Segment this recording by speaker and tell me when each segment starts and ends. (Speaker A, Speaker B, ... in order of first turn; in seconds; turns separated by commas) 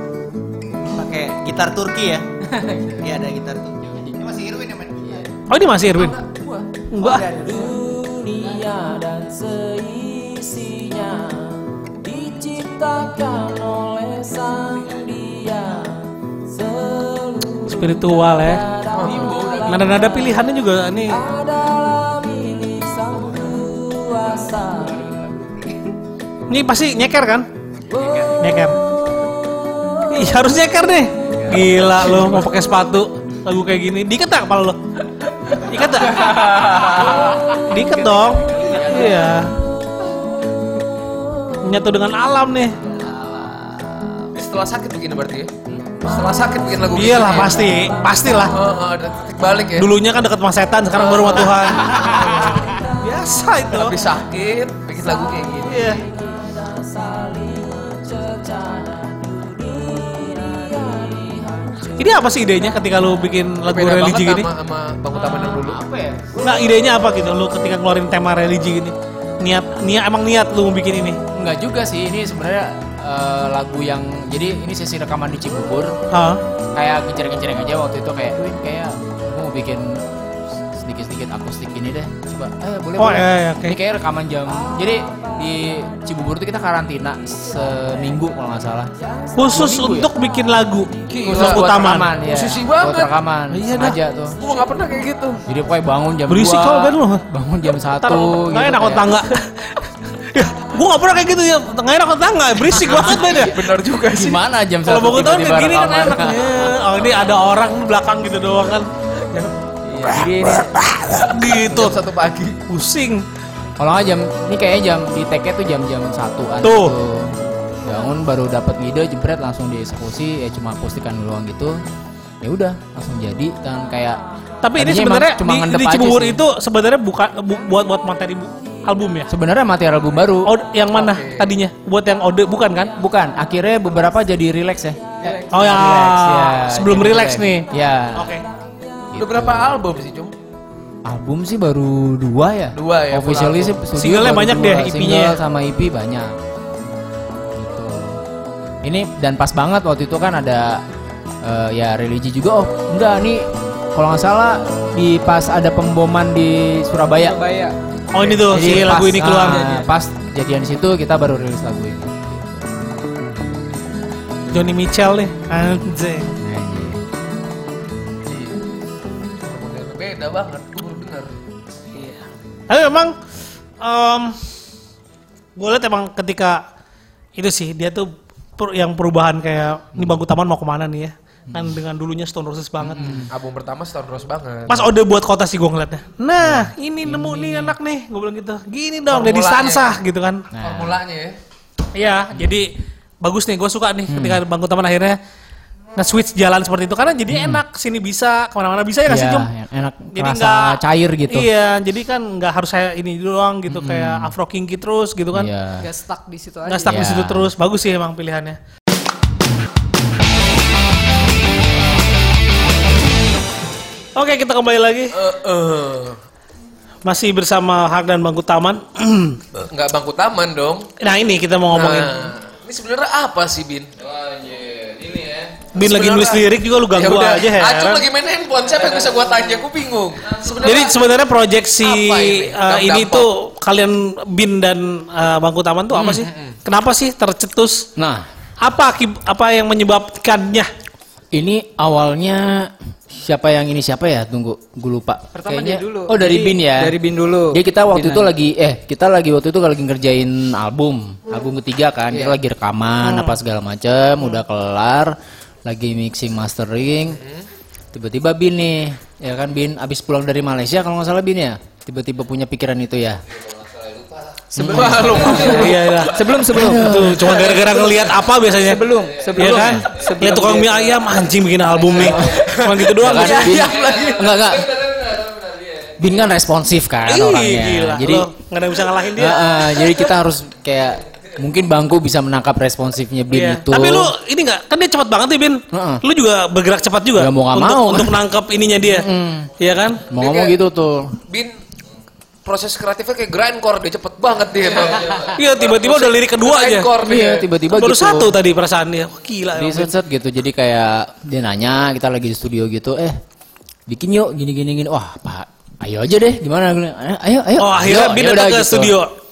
Speaker A: 0.9-2.2, Speaker B: 2.5-3.1, Speaker A: 3.0-5.3, Speaker B: 3.8-4.3, Speaker C: 5.5-6.2, Speaker B: 5.9-20.4, Speaker C: 6.9-7.2, Speaker A: 7.1-7.7, Speaker C: 17.7-18.7, Speaker D: 18.9-19.7, Speaker C: 19.7-21.2, Speaker B: 21.1-25.6, Speaker C: 26.5-27.5, Speaker B: 27.9-28.5, Speaker C: 28.4-28.8, Speaker B: 29.8-30.2, Speaker C: 30.1-34.8, Speaker C: 35.7-36.5, Speaker B: 36.1-39.5, Speaker D: 36.2-37.4, Speaker C: 37.6-39.5, Speaker C: 41.6-42.8, Speaker B: 43.0-44.2, Speaker D: 44.3-45.5, Speaker B: 45.7-46.0, Speaker D: 46.0-47.6, Speaker C: 47.0-48.6, Speaker D: 48.4-49.9, Speaker C: 49.8-54.0, Speaker D: 50.9-52.5, Speaker B: 51.9-52.8, Speaker D: 53.7-56.0, Speaker B: 55.1-62.1, Speaker C: 55.7-56.0, Speaker C: 62.0-64.5, Speaker D: 63.6-65.8, Speaker B: 65.1-66.6, Speaker C: 66.4-71.2, Speaker B: 71.3-76.0, Speaker C: 76.1-76.4, Speaker B: 76.7-80.0, Speaker B: 80.7-90.1, Speaker C: 83.0-83.8, Speaker C: 89.4-92.1, Speaker D: 91.1-93.1, Speaker B: 91.2-94.4, Speaker C: 93.5-94.0, Speaker D: 94.4-95.4, Speaker B: 95.5-99.2, Speaker C: 96.3-97.2, Speaker C: 98.0-99.7, Speaker C: 100.3-103.6, Speaker B: 102.7-106.8, Speaker D: 103.0-104.4, Speaker C: 104.9-109.5, Speaker B: 109.8-110.8, Speaker C: 110.6-112.0, Speaker D: 111.2-112.6, Speaker C: 112.7-113.2, Speaker B: 113.8-121.8, Speaker C: 116.6-116.9, Speaker B: 122.4-124.2, Speaker C: 124.6-129.3, Speaker B: 124.8-126.4, Speaker B: 129.3-130.5, Speaker C: 130.5-133.0, Speaker D: 130.9-131.5, Speaker B: 133.0-138.3, Speaker C: 135.5-138.4, Speaker B: 139.1-139.7, Speaker D: 139.2-140.3, Speaker B: 141.1-146.3, Speaker D: 142.7-143.8, Speaker C: 143.9-145.4, Speaker B: 147.6-148.2, Speaker B: 148.8-150.8, Speaker B: 151.4-157.4, Speaker E: 157.2-157.8, Speaker C: 158.1-159.7, Speaker E: 158.3-159.9, Speaker B: 158.5-162.6, Speaker C: 164.5-166.3, Speaker B: 166.4-167.0, Speaker D: 168.3-168.6, Speaker D: 169.4-171.3, Speaker C: 171.9-173.1, Speaker C: 173.8-174.4, Speaker C: 175.6-176.6, Speaker C: 177.4-183.3, Speaker B: 181.5-181.8, Speaker B: 182.8-183.3, Speaker D: 183.3-184.8, Speaker C: 184.7-190.5, Speaker B: 186.4-187.8, Speaker D: 189.1-190.0, Speaker B: 190.5-191.0, Speaker D: 190.6-191.4, Speaker C: 192.0-192.7, Speaker C: 193.2-195.2, Speaker B: 194.1-194.4, Speaker C: 196.0-199.5, Speaker B: 197.3-197.6, Speaker B: 199.1-201.5, Speaker C: 200.1-205.5, Speaker B: 203.7-204.3, Speaker B: 205.3-205.9, Speaker E: 205.8-207.1, Speaker C: 206.7-208.6, Speaker B: 206.9-207.5, Speaker C: 214.2-215.1, Speaker D: 215.1-216.2, Speaker C: 217.1-219.4, Speaker D: 219.6-220.9, Speaker C: 221.0-222.1, Speaker D: 221.7-223.9, Speaker F: 224.0-225.7, Speaker D: 225.7-231.1, Speaker C: 225.8-228.1, Speaker F: 230.2-231.0, Speaker C: 230.6-237.9, Speaker D: 231.8-233.3, Speaker D: 236.2-236.5, Speaker B: 238.0-238.2, Speaker C: 238.6-240.7, Speaker B: 241.3-247.0, Speaker E: 245.3-248.2, Speaker B: 247.5-255.2, Speaker B: 255.7-257.2, Speaker D: 257.2-257.5, Speaker B: 257.9-263.2, Speaker F: 263.3-265.7, Speaker B: 264.5-265.5, Speaker E: 264.6-265.5, Speaker D: 264.7-266.4, Speaker C: 265.4-268.8, Speaker E: 266.1-267.9, Speaker B: 266.5-267.4, Speaker D: 267.6-268.1, Speaker E: 268.5-271.0, Speaker F: 268.7-270.4, Speaker C: 269.4-273.6, Speaker F: 271.7-272.3, Speaker B: 272.0-272.4, Speaker D: 272.2-274.3, Speaker B: 272.9-274.7, Speaker F: 273.5-276.2, Speaker B: 276.0-278.3, Speaker C: 277.1-279.8, Speaker B: 279.1-284.1, Speaker C: 283.3-290.0, Speaker B: 285.7-286.0, Speaker B: 287.2-288.2, Speaker B: 288.8-291.2, Speaker D: 290.1-290.6, Speaker D: 291.3-291.6, Speaker D: 292.4-297.5, Speaker C: 295.4-296.9, Speaker B: 297.0-298.4, Speaker C: 297.7-299.9, Speaker B: 299.6-303.2, Speaker B: 303.9-309.0, Speaker C: 307.6-309.1